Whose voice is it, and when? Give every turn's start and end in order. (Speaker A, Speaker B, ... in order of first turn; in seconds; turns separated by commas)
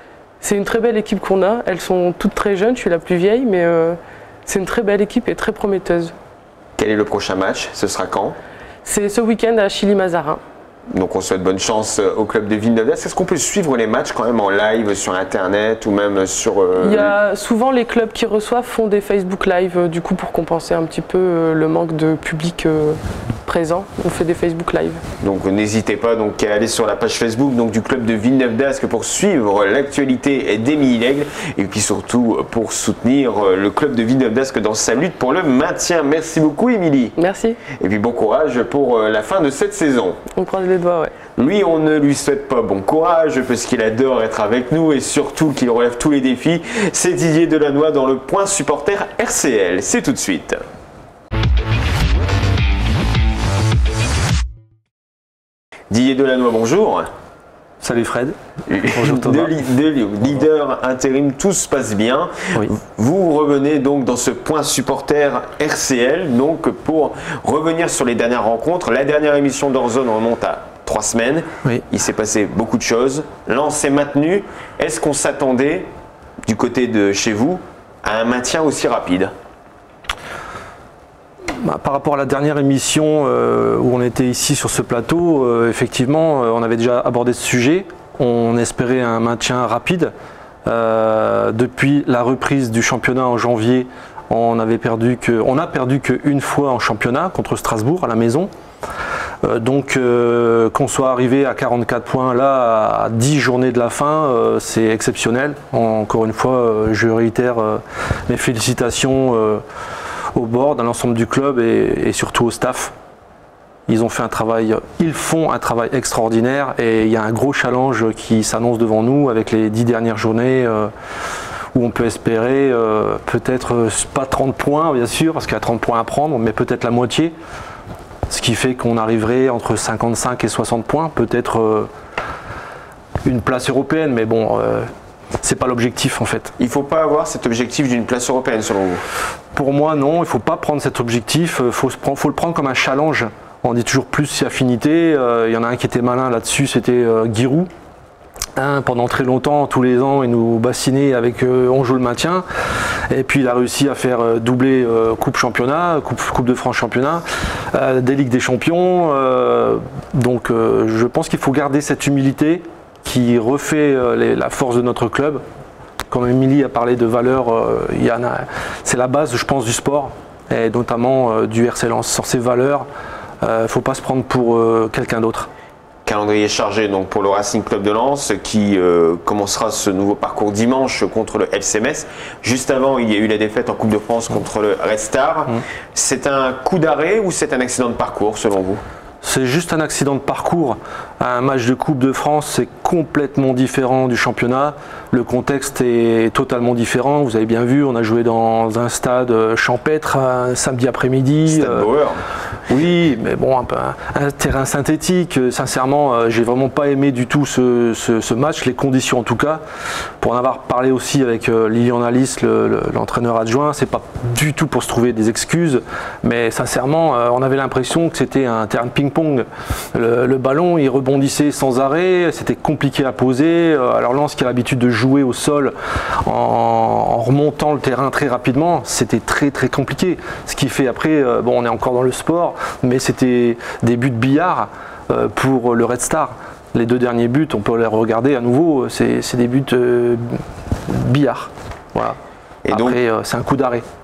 Speaker A: 0.4-6.1, Speaker B: 6.8-8.4, Speaker A: 8.8-10.4, Speaker B: 10.9-17.1, Speaker A: 16.8-25.0, Speaker B: 25.2-37.1, Speaker A: 37.2-37.6, Speaker B: 37.7-40.2, Speaker A: 40.3-41.1, Speaker B: 41.4-50.6, Speaker B: 55.9-57.1, Speaker C: 57.8-58.4, Speaker B: 58.7-75.9, Speaker C: 58.9-59.5, Speaker B: 76.5-79.3, Speaker C: 81.6-90.1, Speaker C: 90.7-98.5, Speaker C: 99.4-109.6, Speaker C: 110.3-112.9, Speaker C: 113.9-120.9, Speaker C: 121.7-127.3, Speaker C: 128.3-131.9, Speaker C: 133.2-134.9, Speaker C: 135.4-136.5, Speaker B: 136.6-139.0, Speaker C: 139.5-147.7, Speaker C: 148.6-152.4, Speaker C: 153.1-165.4, Speaker C: 166.1-172.8, Speaker C: 173.4-175.5, Speaker B: 176.0-188.8, Speaker C: 189.2-201.9, Speaker B: 201.5-202.2, Speaker C: 202.7-209.6, Speaker C: 210.2-225.7, Speaker C: 226.2-242.2, Speaker B: 242.7-243.0, Speaker C: 242.7-243.8